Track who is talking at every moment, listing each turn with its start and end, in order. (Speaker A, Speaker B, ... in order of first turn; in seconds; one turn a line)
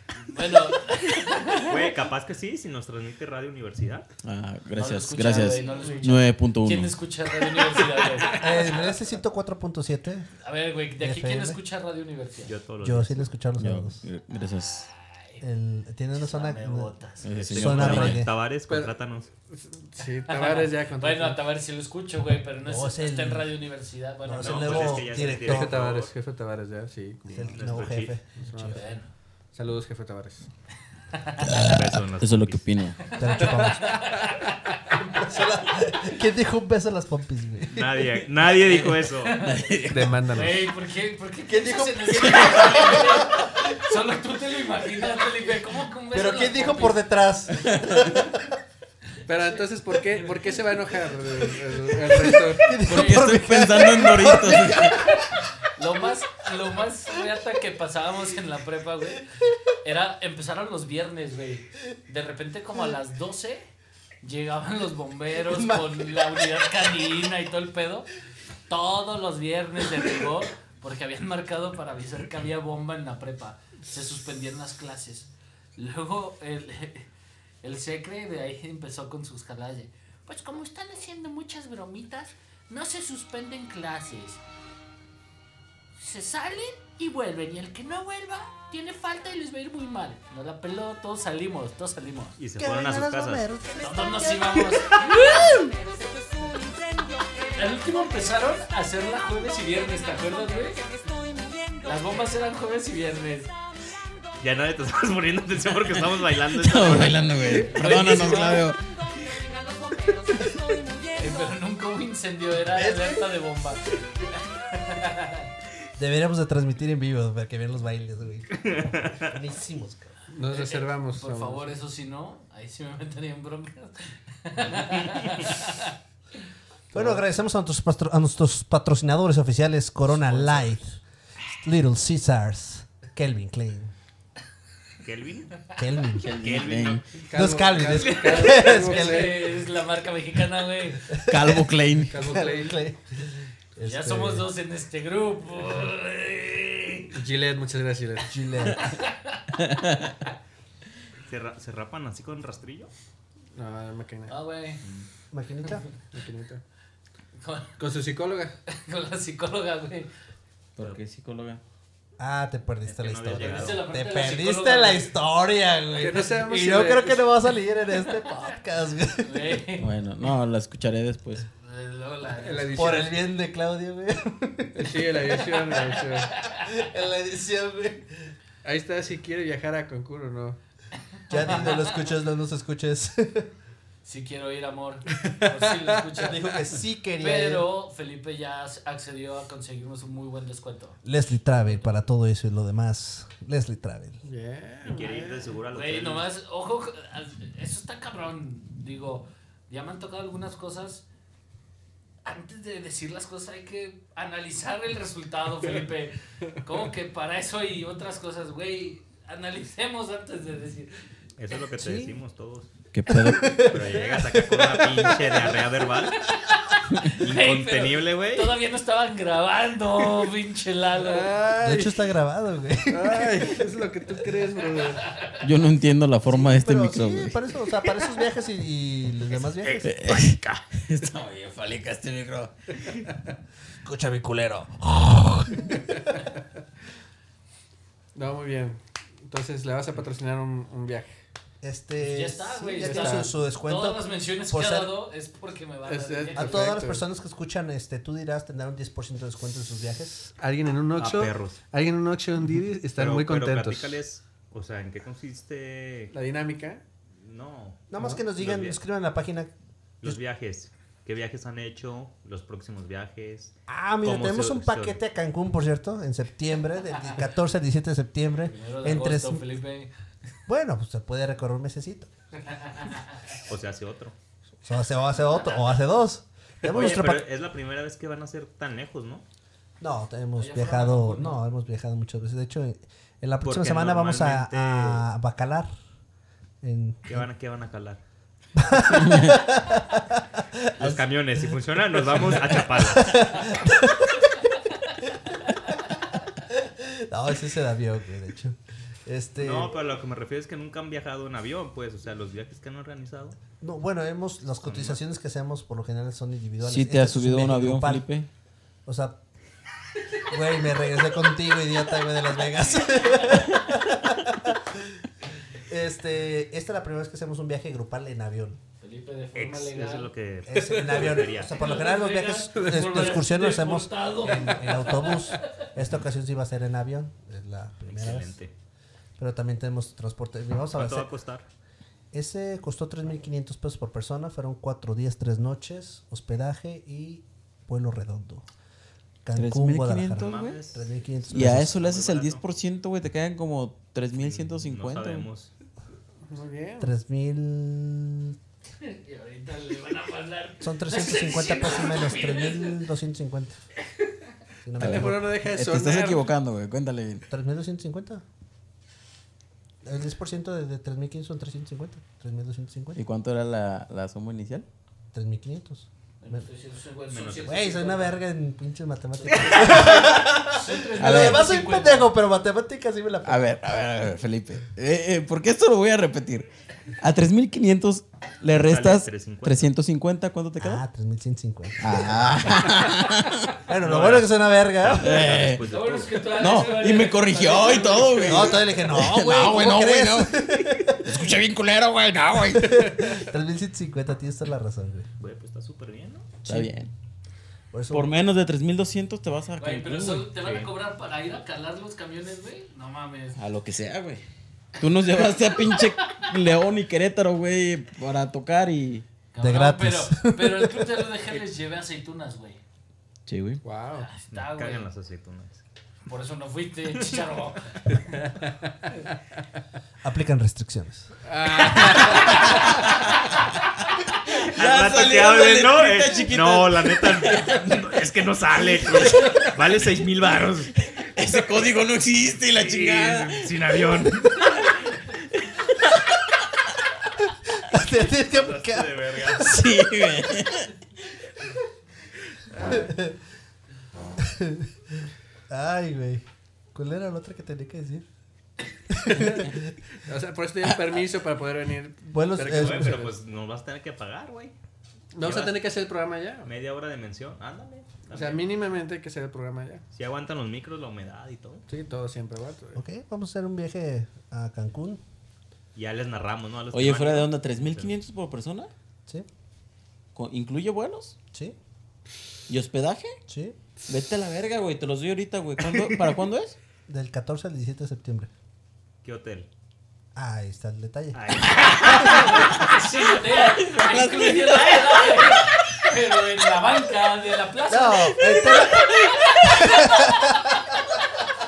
Speaker A: 0.2-1.9
Speaker B: 1.6-4.1
Speaker C: 4.2-6.9
Speaker A: 4.8-8.5
Speaker D: 8.3-10.3
Speaker A: 10.4-12.5
Speaker D: 11.0-11.6
Speaker B: 12.4-13.3
Speaker D: 12.8-14.0
Speaker C: 13.6-14.9
Speaker A: 15.2-15.4
Speaker D: 15.4-16.9
Speaker A: 16.1-17.8
Speaker C: 17.2-18.2
Speaker B: 17.5-19.3
Speaker D: 17.5-18.3
Speaker E: 18.7-18.9
Speaker E: 19.5-21.4
Speaker A: 20.3-25.0
Speaker D: 22.6-23.5
Speaker D: 24.2-25.8
Speaker B: 24.4-26.1
Speaker E: 25.4-27.6
Speaker D: 27.3-28.8
Speaker B: 27.5-28.1
Speaker E: 28.4-28.9
Speaker A: 28.7-29.1
Speaker E: 29.5-30.5
Speaker A: 31.1-31.5
Speaker C: 31.4-33.1
Speaker B: 31.5-32.7
Speaker A: 33.1-35.3
Speaker D: 33.2-34.1
Speaker D: 35.1-38.0
Speaker B: 37.7-39.4
Speaker A: 39.2-39.6
Speaker C: 39.4-40.2
Speaker E: 39.9-40.7
Speaker A: 40.3-47.0
Speaker D: 41.5-43.6
Speaker C: 42.2-42.9
Speaker D: 46.1-48.4
Speaker C: 47.7-48.1
Speaker E: 49.3-52.8
Speaker D: 52.0-55.1
Speaker A: 52.9-53.3
Speaker C: 52.9-55.0
Speaker A: 55.6-59.2
Speaker A: 59.8-63.7
Speaker A: 64.2-68.1
Speaker D: 65.4-66.2
Speaker A: 68.7-77.1
Speaker A: 77.6-84.4
Speaker A: 86.0-92.4
Speaker B: 92.4-93.4
Speaker D: 92.6-94.7
Speaker A: 93.8-95.7
Speaker A: 97.5-100.8
Speaker A: 101.8-103.5
Speaker B: 104.4-107.3
Speaker C: 106.5-108.8
Speaker A: 107.7-108.7
Speaker A: 109.5-110.2
Speaker A: 111.1-115.5
Speaker D: 112.7-113.3
Speaker D: 116.0-120.1
Speaker B: 118.5-119.3
Speaker E: 120.3-121.7
Speaker A: 120.5-125.9
Speaker D: 126.9-131.0
Speaker E: 126.9-127.2
Speaker E: 130.1-130.7
Speaker D: 131.6-133.9
Speaker B: 135.0-135.5
Speaker D: 135.8-136.3
Speaker C: 136.2-137.1
Speaker B: 136.4-137.0
Speaker E: 137.2-139.5
Speaker D: 137.3-139.4
Speaker B: 137.9-138.4
Speaker A: 138.1-141.1
Speaker D: 141.1-144.5
Speaker C: 141.2-142.2
Speaker E: 142.1-142.8
Speaker A: 143.8-147.1
Speaker E: 147.1-148.3
Speaker D: 148.3-148.8
Speaker A: 148.8-149.5
Speaker C: 149.6-150.2
Speaker B: 151.3-152.9
Speaker E: 153.5-154.3
Speaker A: 154.3-154.8
Speaker B: 154.8-155.1
Speaker D: 155.3-155.9
Speaker E: 156.1-156.6
Speaker A: 157.4-157.8
Speaker E: 157.8-158.5
Speaker A: 158.7-160.1
Speaker C: 160.8-161.6
Speaker D: 162.2-169.6
Speaker B: 162.8-163.8
Speaker A: 163.4-165.1
Speaker E: 166.0-167.2
Speaker A: 167.9-168.5
Speaker A: 169.2-169.9
Speaker C: 169.8-171.4
Speaker A: 171.6-173.1
Speaker E: 172.4-173.1
Speaker D: 172.7-175.8
Speaker E: 174.7-176.3
Speaker A: 176.3-176.7
Speaker D: 176.6-178.2
Speaker E: 178.6-180.6
Speaker A: 181.3-182.0
Speaker D: 181.3-183.5
Speaker A: 184.0-186.5
Speaker D: 186.2-187.7
Speaker A: 187.2-191.0
Speaker D: 191.0-194.2
Speaker E: 194.2-195.5
Speaker B: 194.8-196.3
Speaker A: 195.7-201.0
Speaker A: 202.2-210.9
Speaker B: 211.4-212.7
Speaker D: 211.8-212.2
Speaker C: 212.9-213.7
Speaker D: 213.1-215.2
Speaker B: 213.7-216.2
Speaker E: 215.0-215.5
Speaker A: 216.2-221.3
Speaker B: 217.1-218.6
Speaker E: 221.0-221.9
Speaker D: 221.6-223.6
Speaker E: 222.9-225.2
Speaker C: 225.4-227.4
Speaker D: 226.3-230.0
Speaker C: 229.8-232.5
Speaker D: 233.8-236.1
Speaker E: 238.1-241.1
Speaker D: 241.6-244.9
Speaker A: 242.0-246.7
Speaker E: 242.8-243.3
Speaker E: 245.8-247.0
Speaker D: 246.3-250.3
Speaker E: 250.4-254.0
Speaker B: 251.0-251.6
Speaker B: 252.9-256.1
Speaker E: 256.1-256.8
Speaker B: 257.2-258.8
Speaker D: 257.9-259.5
Speaker B: 260.0-265.0
Speaker D: 263.7-269.5
Speaker A: 268.4-269.9
Speaker D: 270.5-272.1
Speaker A: 272.5-273.1
Speaker B: 273.4-274.1
Speaker D: 274.6-277.2
Speaker A: 275.2-275.8
Speaker B: 276.6-279.2
Speaker D: 279.8-285.7
Speaker A: 280.4-281.4
Speaker B: 283.4-285.1
Speaker D: 286.6-287.3
Speaker B: 287.1-288.0
Speaker D: 288.5-294.3
Speaker C: 288.9-289.4
Speaker B: 290.8-293.2
Speaker D: 295.0-295.7
Speaker D: 296.5-299.7
Speaker B: 299.4-303.4
Speaker D: 303.6-308.0
Speaker B: 304.6-305.0
Speaker C: 306.6-308.3
Speaker D: 308.9-309.2
Speaker D: 310.3-318.6
Speaker A: 312.6-313.6
Speaker A: 318.8-320.1
Speaker B: 319.3-321.6
Speaker D: 320.5-328.3
Speaker E: 320.5-321.3
Speaker A: 321.6-325.4
Speaker E: 322.5-323.2
Speaker B: 327.9-328.5
Speaker D: 329.2-331.1
Speaker B: 330.7-331.4
Speaker D: 332.1-338.4
Speaker D: 339.2-341.8
Speaker C: 339.4-340.6
Speaker B: 340.2-342.4
Speaker C: 341.3-345.3
Speaker B: 344.2-345.5
Speaker E: 346.3-346.9
Speaker D: 346.8-348.4
Speaker A: 348.8-352.8
Speaker D: 350.6-353.6
Speaker D: 354.6-355.3
Speaker C: 354.8-357.2
Speaker E: 354.8-356.2
Speaker D: 357.3-358.2
Speaker D: 359.8-363.0
Speaker C: 362.9-364.6
Speaker D: 365.1-366.4
Speaker A: 366.2-368.2
Speaker B: 367.1-367.5
Speaker D: 367.4-373.6
Speaker A: 369.2-372.1
Speaker C: 371.0-371.5
Speaker C: 373.2-376.5
Speaker C: 377.0-380.8
Speaker B: 378.5-379.7
Speaker D: 380.6-382.9
Speaker C: 381.8-383.5
Speaker D: 383.7-385.3
Speaker B: 383.8-386.3
Speaker C: 385.0-385.6
Speaker A: 385.7-388.6
Speaker C: 386.3-393.1
Speaker D: 388.2-391.3
Speaker D: 392.5-395.1
Speaker B: 395.2-396.4
Speaker C: 396.4-396.9
Speaker D: 397.7-398.1
Speaker C: 397.9-400.3
Speaker A: 399.6-403.4
Speaker B: 400.4-400.7
Speaker C: 403.4-404.2
Speaker C: 404.8-409.0
Speaker A: 405.5-406.2
Speaker A: 409.3-412.6
Speaker D: 409.4-411.1
Speaker C: 413.3-413.6
Speaker E: 413.6-414.1
Speaker A: 414.0-414.9
Speaker B: 414.3-415.6
Speaker A: 416.1-417.8
Speaker E: 418.1-418.5
Speaker D: 420.0-421.1
Speaker E: 421.2-422.8
Speaker A: 421.7-422.7
Speaker C: 422.3-423.0
Speaker C: 424.3-427.6
Speaker B: 424.5-430.7
Speaker C: 428.8-429.5
Speaker C: 430.9-434.0
Speaker B: 432.5-434.5
Speaker C: 435.3-436.0
Speaker D: 437.6-439.6
Speaker B: 438.1-439.6
Speaker C: 439.4-440.7
Speaker D: 442.6-443.2
Speaker D: 444.2-448.1
Speaker D: 448.9-449.7
Speaker E: 449.2-449.4
Speaker E: 450.1-453.1
Speaker D: 452.1-453.1
Speaker B: 452.4-454.5
Speaker E: 455.1-456.5
Speaker B: 455.2-455.6
Speaker B: 456.4-458.4
Speaker E: 458.1-459.8
Speaker B: 459.9-461.6
Speaker E: 461.7-462.8
Speaker D: 462.7-465.0
Speaker B: 465.7-467.9
Speaker C: 466.7-468.7
Speaker C: 470.1-471.1
Speaker C: 472.5-473.2
Speaker D: 473.3-473.6
Speaker C: 473.9-476.5
Speaker D: 476.9-478.3
Speaker B: 479.0-479.5
Speaker D: 480.1-481.2
Speaker B: 481.1-482.4
Speaker C: 481.6-482.5
Speaker A: 481.8-488.5
Speaker C: 483.2-485.5
Speaker D: 487.7-490.7
Speaker C: 488.2-489.6
Speaker A: 489.6-489.9